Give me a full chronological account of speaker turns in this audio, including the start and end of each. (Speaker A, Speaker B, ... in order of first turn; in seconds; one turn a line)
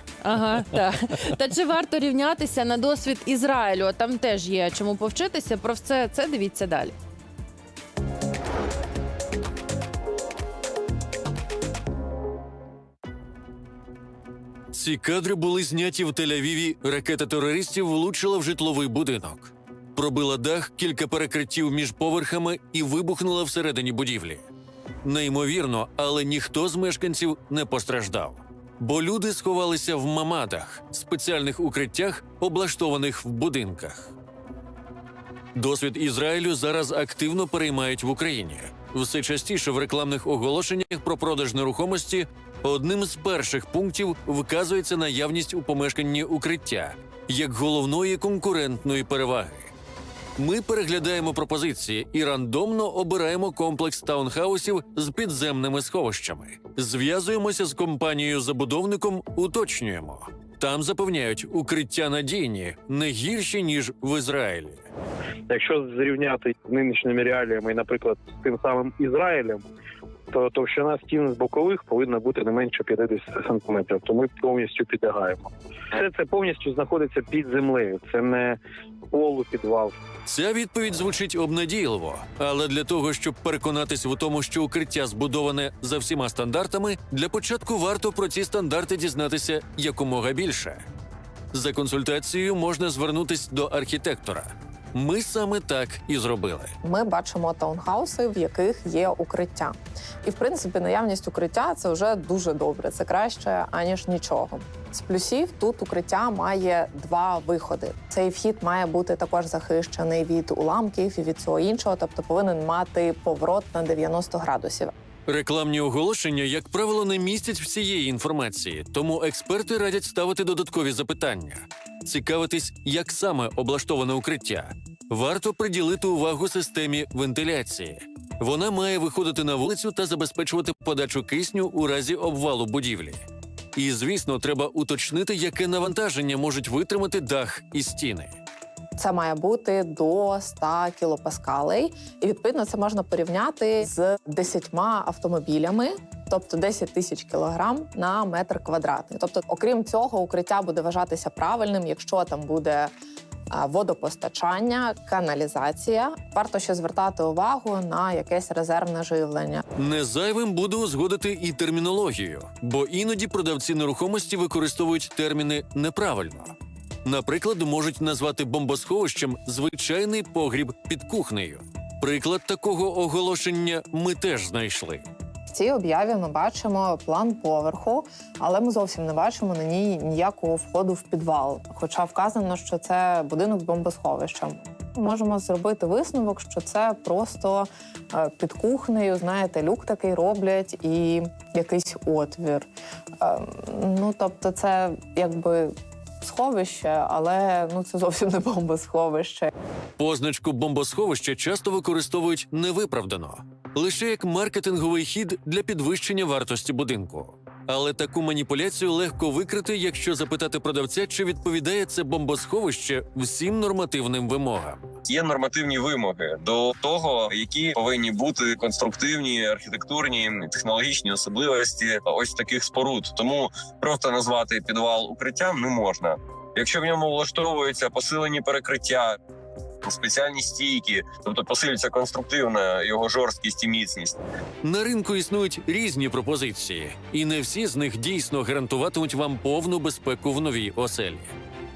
Speaker A: 0.2-6.9
Speaker B: 14.7-24.4
Speaker B: 25.0-34.1
Speaker B: 35.5-49.7
Speaker B: 50.4-64.8
Speaker C: 65.5-69.7
Speaker C: 70.3-78.6
Speaker C: 79.1-80.0
Speaker B: 80.3-90.8
Speaker B: 91.5-96.7
Speaker D: 96.8-114.9
Speaker B: 115.3-133.2
Speaker B: 133.8-138.3
Speaker D: 139.0-152.9
Speaker D: 153.5-159.6
Speaker B: 159.8-166.5
Speaker B: 167.1-175.1
Speaker D: 175.5-192.7
Speaker D: 193.2-199.5
Speaker B: 200.0-214.9
Speaker E: 215.1-229.2
Speaker E: 229.8-234.2
Speaker B: 234.6-241.3